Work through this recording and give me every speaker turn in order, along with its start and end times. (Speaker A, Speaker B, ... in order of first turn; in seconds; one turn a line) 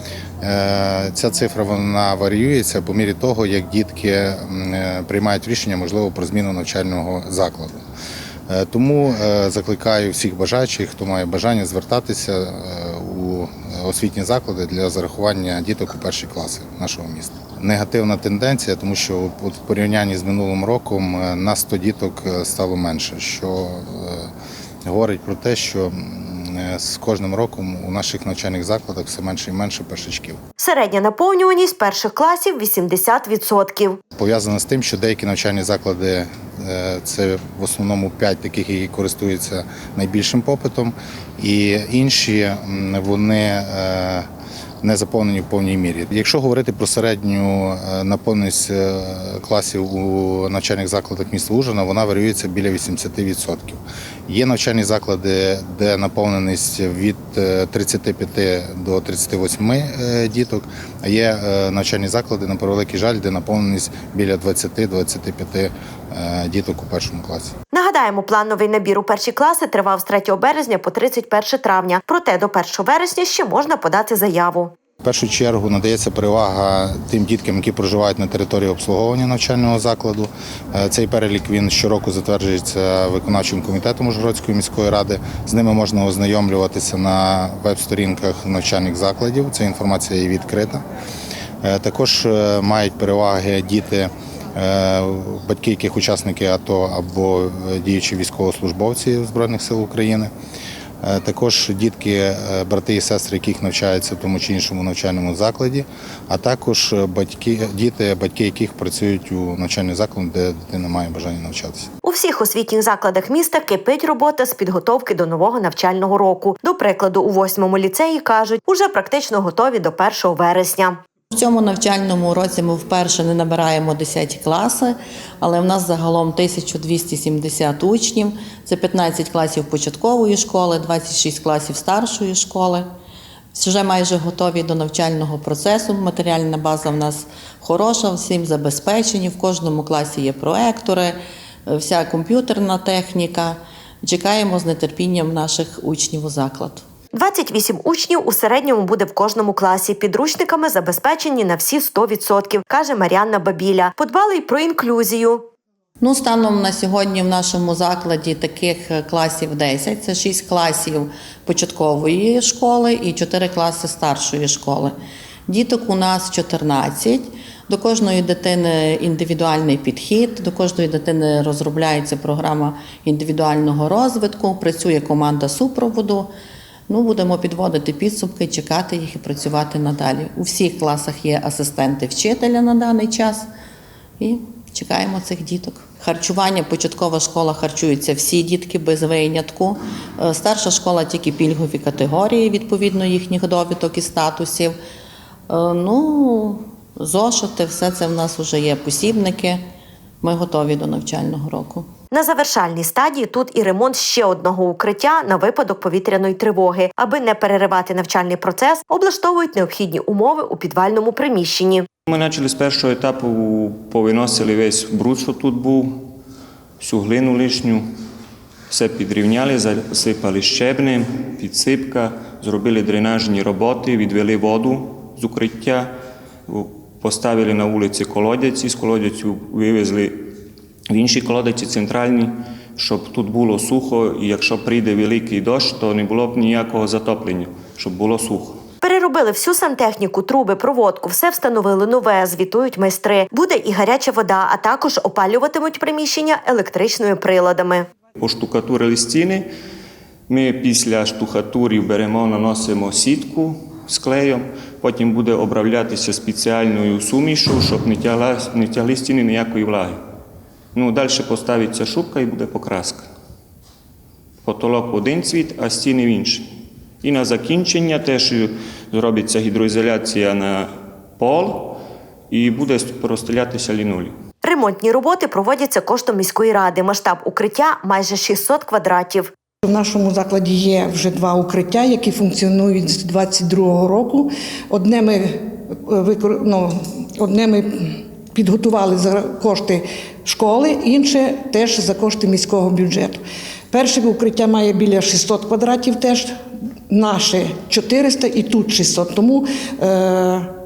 Speaker A: 0.4-7.8
Speaker A: 8.5-24.3
Speaker A: 24.8-30.4
Speaker B: 30.6-34.0
Speaker A: 34.1-44.2
Speaker A: 44.8-67.5
Speaker B: 67.7-74.7
Speaker A: 75.0-90.8
Speaker A: 91.6-100.3
Speaker A: 101.0-111.9
Speaker B: 112.0-121.0
Speaker C: 121.3-132.8
Speaker C: 133.5-146.8
Speaker B: 147.1-155.4
Speaker C: 156.0-164.9
Speaker C: 165.5-176.3
Speaker C: 176.9-183.4
Speaker C: 184.2-194.7
Speaker C: 195.5-199.6
Speaker C: 200.2-201.9
Speaker B: 202.1-211.9
Speaker D: 212.1-216.1
Speaker D: 216.8-217.9
Speaker D: 218.7-225.9
Speaker D: 226.5-230.3
Speaker D: 230.9-238.6
Speaker B: 238.8-247.9
Speaker D: 248.2-249.4
Speaker D: 250.3-260.0
Speaker D: 260.7-263.1
Speaker D: 264.4-266.4
Speaker D: 267.0-274.1
Speaker B: 274.4-279.3
Speaker E: 279.6-296.3
Speaker E: 296.9-300.5